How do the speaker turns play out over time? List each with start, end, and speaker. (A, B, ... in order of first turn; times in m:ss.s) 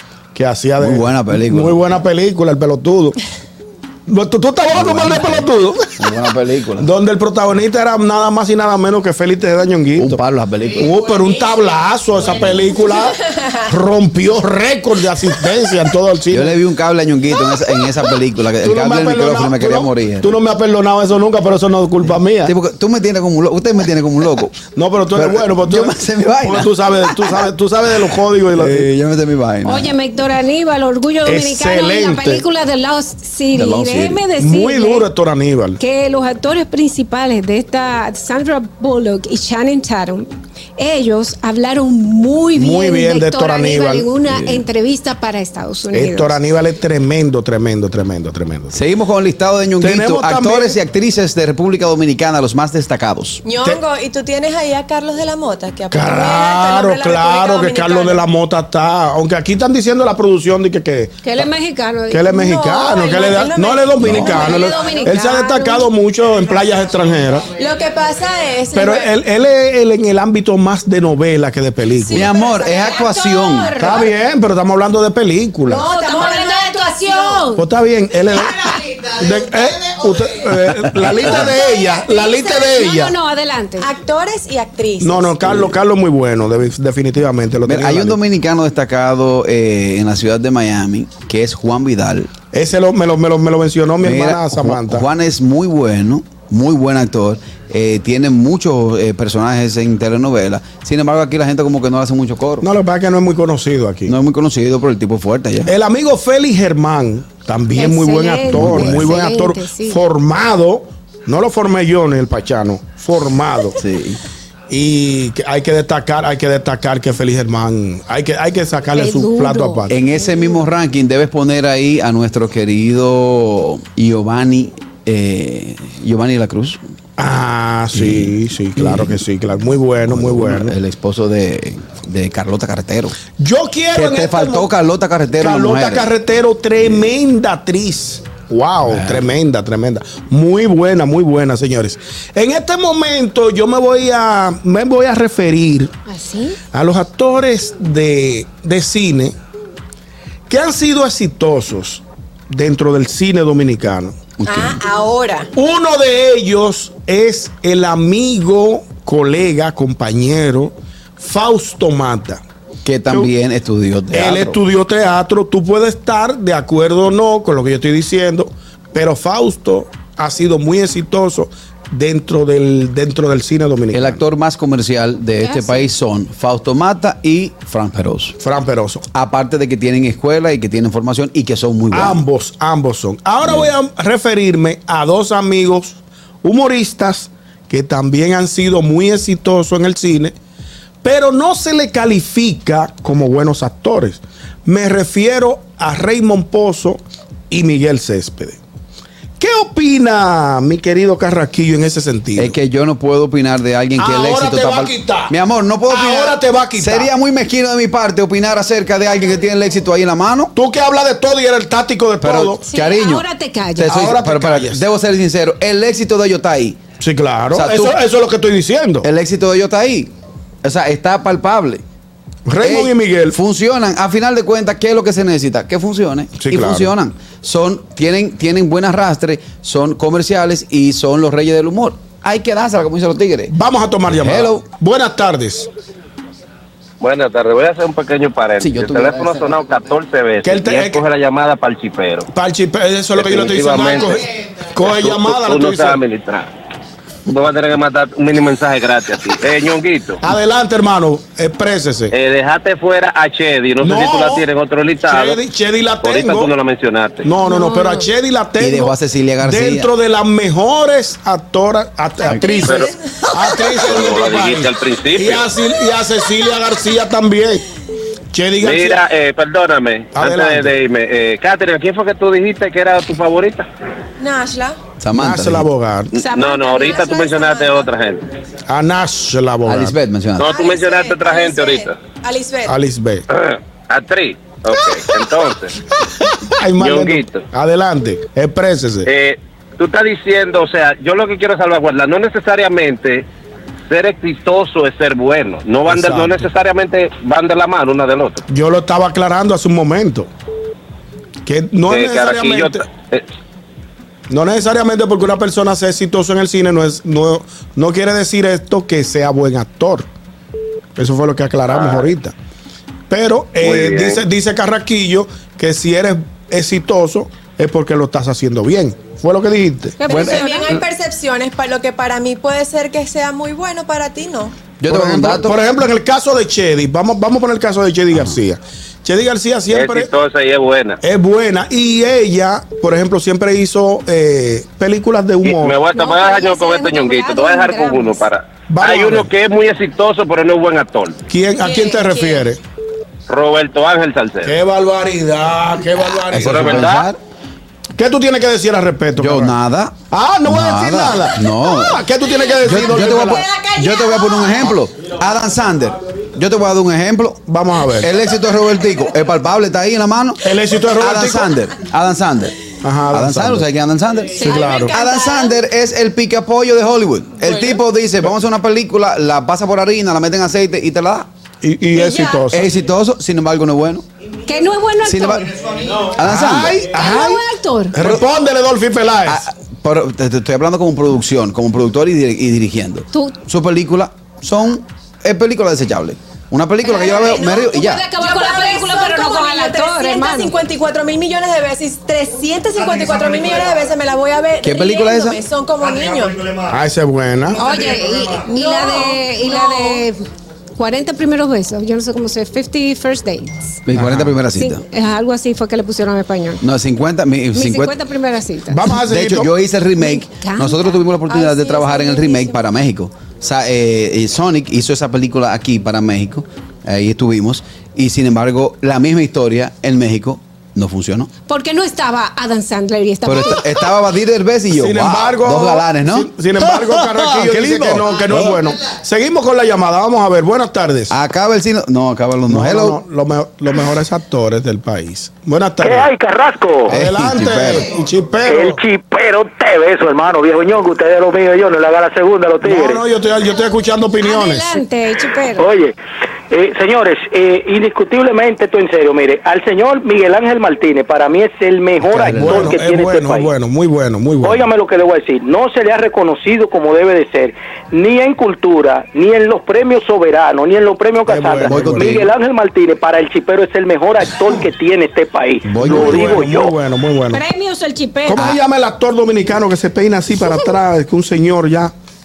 0:00.3-0:03.2 A
0:00.8-0:01.8 B
0:04.1-0:06.1 A
0:04.7-0:06.9 B
0:06.8-0:10.2 A
0:10.0-0:10.9 B
0:10.7-0:16.6 A
0:16.3-0:20.3 B
0:18.6-0:22.5 A
0:22.4-0:24.6 B
0:24.7-0:28.9 A
0:25.1-0:27.4 B
0:28.5-0:29.9 B
0:29.6-0:35.1 C
0:31.2-0:32.4 A
0:33.5-0:34.2 B
0:34.4-0:35.8 A
0:35.8-0:46.4 C
0:42.5-0:44.1 A
0:44.3-0:44.6 B
0:45.9-0:48.8 A
0:48.7-0:53.4 B
0:49.8-0:50.8 A
0:53.4-0:58.2 D
0:55.9-1:01.4 A
1:01.2-1:02.4 C
1:02.1-1:07.5 A
1:02.3-1:05.1 D
1:04.0-1:04.4 B
1:04.2-1:05.9 C
1:07.6-1:09.1 D
1:08.7-1:12.3 A
1:12.1-1:13.2 D
1:12.1-1:13.8 B
1:12.4-1:14.0 C
1:13.8-1:15.9 A
1:15.7-1:17.4 D
1:15.7-1:17.6 C
1:17.6-1:23.1 A
1:20.9-1:21.3 B
1:21.7-1:23.9 C
1:23.8-1:25.5 D
1:25.0-1:28.2 A
1:27.6-1:32.3 B
1:32.5-1:35.1 A
1:34.0-1:42.7 B
1:42.6-1:44.1 A
1:44.1-1:45.7 B
1:45.6-1:53.8 A
1:47.7-1:50.0 C
1:48.5-1:49.1 B
1:53.8-1:54.2 B
1:54.7-2:00.0 A
1:58.9-1:59.9 C
1:59.9-2:06.8 B
2:07.2-2:10.8 A
2:07.9-2:09.2 B
2:10.1-2:13.2 B
2:13.4-2:14.7 A
2:13.9-2:16.1 B
2:15.4-2:25.9 A
2:18.9-2:19.2 B
2:26.1-2:26.6 C
2:26.7-2:29.3 A
2:30.5-2:34.2 A
2:34.4-2:34.8 B
2:34.4-2:35.5 D
2:35.5-2:42.4 A
2:42.8-2:44.6 B
2:43.1-2:43.3 A
2:44.1-2:54.2 A
2:53.9-2:58.4 B
2:55.4-2:55.9 C
2:58.4-2:59.0 A
2:59.1-3:02.2 B
3:01.9-3:10.3 A
3:03.4-3:03.7 B
3:11.0-3:18.6 A
3:19.4-3:22.6 A
3:22.4-3:30.5 B
3:24.0-3:25.3 A
3:25.8-3:27.1 A
3:30.5-3:32.6 A
3:32.2-3:33.2 B
3:32.7-3:34.0 C
3:33.8-3:36.8 B
3:33.8-3:34.8 A
3:37.0-3:39.1 A
3:37.5-3:38.0 B
3:39.0-3:40.1 B
3:40.6-3:41.8 B
3:42.5-3:43.4 A
3:42.6-3:53.5 B
3:46.4-3:46.9 A
3:53.5-3:55.7 A
3:54.2-3:54.6 B
3:57.0-4:02.3 E
3:58.6-3:59.6 B
4:00.4-4:01.0 A
4:02.3-4:06.0 A
4:03.2-4:04.2 E
4:04.8-4:06.5 E
4:07.3-4:10.2 E
4:10.2-4:12.1 A
4:12.1-4:15.4 E
4:13.8-4:14.4 A
4:15.0-4:16.5 A
4:16.0-4:17.3 E
4:17.2-4:27.6 A
4:17.4-4:18.0 C
4:18.6-4:19.9 B
4:22.3-4:22.5 B
4:22.6-4:22.9 E
4:23.8-4:25.4 E
4:28.3-4:29.0 A
4:28.6-4:33.7 E
4:30.1-4:30.7 A
4:34.2-4:34.8 D
4:35.0-4:35.7 B
4:35.1-4:36.1 A
4:36.1-4:38.2 E
4:36.2-4:37.9 D
4:38.7-4:40.0 A
4:39.6-4:40.5 B
4:40.4-4:42.0 E
4:40.4-4:42.8 D
4:42.6-4:43.2 A
4:43.3-4:45.7 E
4:46.4-4:49.1 A
4:46.8-4:47.4 E
4:49.0-4:53.2 E
4:53.9-4:58.4 E
4:55.9-4:56.5 A
4:58.5-5:00.3 A
5:01.4-5:02.8 A
5:01.9-5:03.2 E
5:04.3-5:10.1 A
5:11.0-5:12.3 A
5:11.7-5:12.0 E
5:13.1-5:20.0 A
5:13.6-5:14.2 E
5:20.0-5:20.8 C
5:20.1-5:24.6 D
5:20.1-5:20.4 B
5:24.8-5:25.6 B
5:24.9-5:30.1 A
5:29.7-5:31.0 E
5:31.0-5:35.8 A
5:35.4-5:41.2 E
5:35.9-5:38.3 C
5:38.7-5:39.3 A
5:41.3-5:42.6 A
5:41.6-5:42.4 D
5:43.3-5:44.5 E
5:44.4-5:46.9 A
5:46.3-5:47.2 B
5:46.3-5:47.1 E
5:48.0-5:49.6 A
5:49.2-5:49.9 B
5:50.1-5:53.5 A
5:50.5-5:52.1 B
5:52.6-5:57.4 B
5:53.6-5:54.2 D
5:57.5-5:58.1 A
5:58.0-6:02.6 B
6:00.4-6:01.5 A
6:02.8-6:03.7 A
6:03.1-6:11.3 B
6:04.4-6:04.9 A
6:04.4-6:05.6 D
6:07.5-6:07.8 D
6:11.6-6:12.7 A
6:11.9-6:12.4 D
6:12.5-6:14.0 B
6:14.4-6:15.5 C
6:15.0-6:16.8 B
6:16.1-6:19.4 A
6:16.8-6:18.0 C
6:19.2-6:28.0 B
6:26.8-6:36.6 D
6:27.0-6:30.5 C
6:34.6-6:35.4 B
6:36.6-6:38.0 A
6:37.6-6:40.2 C
6:38.4-6:40.0 D
6:40.8-6:43.8 C
6:43.9-6:44.8 B
6:43.9-6:44.4 A
6:44.6-6:46.6 C
6:46.6-6:47.9 B
6:47.5-6:48.9 C
6:48.7-6:49.5 A
6:49.0-7:01.3 B
6:50.0-6:50.8 C
6:51.3-6:52.6 D
7:01.5-7:03.9 C
7:03.2-7:08.6 B
7:04.7-7:11.1 A
7:11.1-7:13.0 B
7:12.5-7:16.1 A
7:15.8-7:16.9 F
7:16.9-7:18.8 A
7:16.9-7:17.9 B
7:18.4-7:23.0 F
7:22.6-7:24.7 A
7:24.2-7:25.6 C
7:25.6-7:25.9 F
7:26.5-7:33.5 F
7:32.0-7:32.8 B
7:32.3-7:34.7 A
7:34.4-7:46.7 F
7:41.2-7:42.2 A
7:41.6-7:42.3 B
7:45.6-7:46.4 B
7:45.8-7:47.4 A
7:47.3-7:48.4 C
7:48.2-7:51.9 A